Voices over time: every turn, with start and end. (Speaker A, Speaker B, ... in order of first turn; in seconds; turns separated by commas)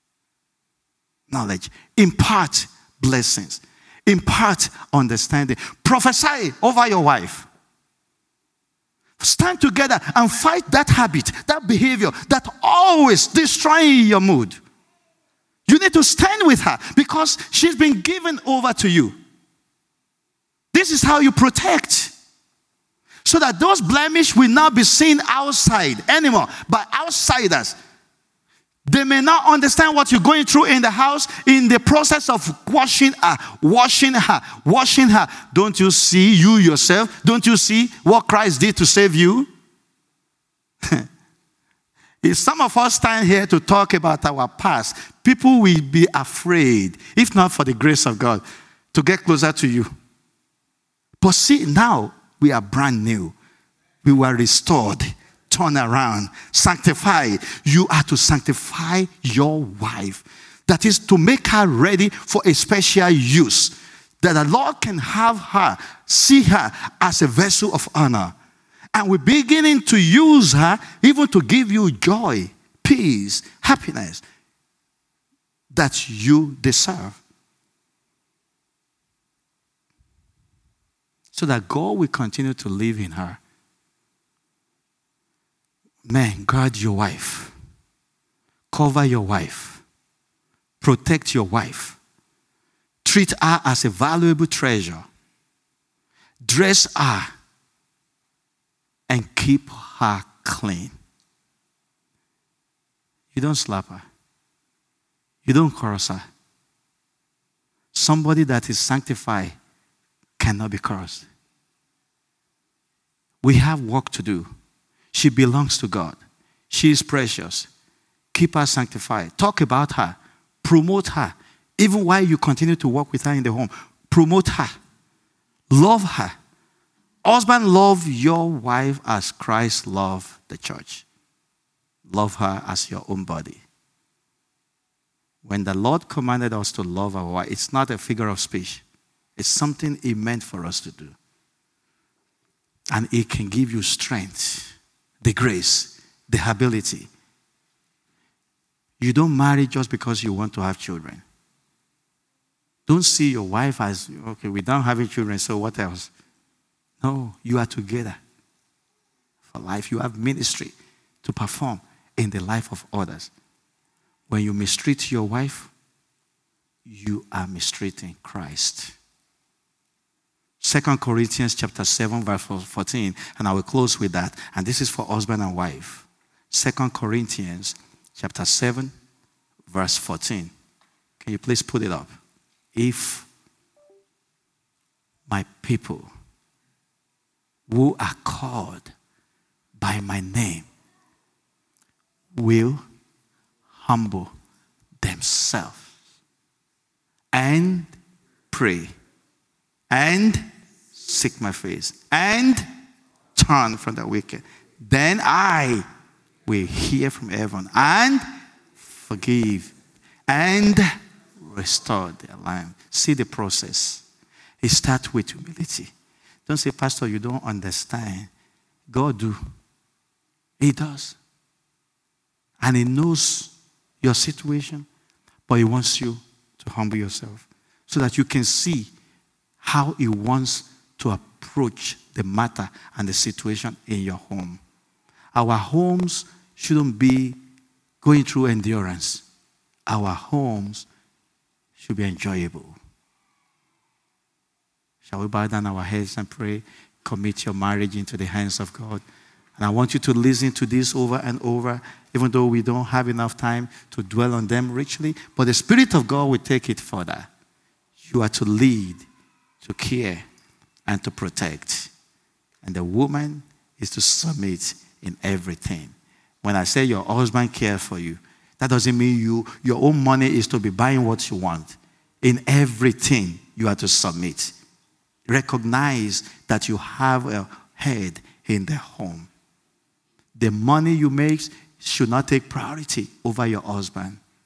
Speaker A: 1.3-7.5, Speaker A: 9.2-14.6, Speaker A: 15.7-19.1, Speaker A: 20.7-22.1, Speaker A: 23.2-27.8, Speaker A: 28.9-39.5, Speaker A: 42.2-49.9, Speaker A: 51.2-53.4, Speaker A: 54.0-68.3, Speaker A: 68.9-74.2, Speaker A: 75.7-77.2, Speaker A: 81.3-83.4, Speaker A: 86.1-87.5, Speaker A: 88.7-89.8, Speaker A: 90.8-92.0, Speaker A: 93.0-95.0, Speaker A: 96.4-97.3, Speaker A: 99.1-100.9, Speaker A: 103.3-104.0, Speaker A: 105.5-106.2, Speaker A: 107.9-109.6, Speaker A: 110.4-111.3, Speaker A: 113.4-114.5, Speaker A: 115.1-116.2, Speaker A: 116.7-117.7, Speaker A: 118.3-124.8, Speaker A: 125.7-126.3, Speaker A: 127.2-131.1, Speaker A: 132.1-133.6, Speaker A: 135.4-138.8, Speaker A: 139.4-141.2, Speaker A: 142.9-147.1, Speaker A: 149.0-151.2, Speaker A: 152.9-156.1, Speaker A: 157.0-158.2, Speaker A: 159.5-163.3, Speaker A: 164.3-165.7, Speaker A: 166.9-169.0, Speaker A: 170.6-178.9, Speaker A: 179.7-180.5, Speaker A: 181.2-182.1, Speaker A: 182.8-183.3, Speaker A: 185.3-186.1, Speaker A: 187.7-188.9, Speaker A: 189.8-190.7, Speaker A: 192.3-192.8, Speaker A: 193.7-194.3, Speaker A: 195.0-195.9, Speaker A: 197.3-197.9, Speaker A: 198.5-198.9, Speaker A: 199.9-202.7, Speaker A: 203.4-205.8, Speaker A: 206.5-208.2, Speaker A: 208.8-209.7, Speaker A: 210.3-210.9, Speaker A: 211.4-214.0, Speaker A: 214.6-215.9, Speaker A: 216.5-218.3, Speaker A: 218.9-219.4, Speaker A: 220.6-221.2, Speaker A: 222.6-224.9, Speaker A: 225.5-228.9, Speaker A: 229.6-234.6, Speaker A: 235.3-237.4, Speaker A: 238.0-239.2, Speaker A: 239.9-240.9, Speaker A: 241.8-242.8, Speaker A: 245.0-249.0, Speaker A: 249.6-257.3, Speaker A: 258.0-259.1, Speaker A: 259.6-260.2, Speaker A: 260.9-261.9, Speaker A: 262.6-274.6, Speaker A: 275.3-279.3, Speaker A: 280.4-284.2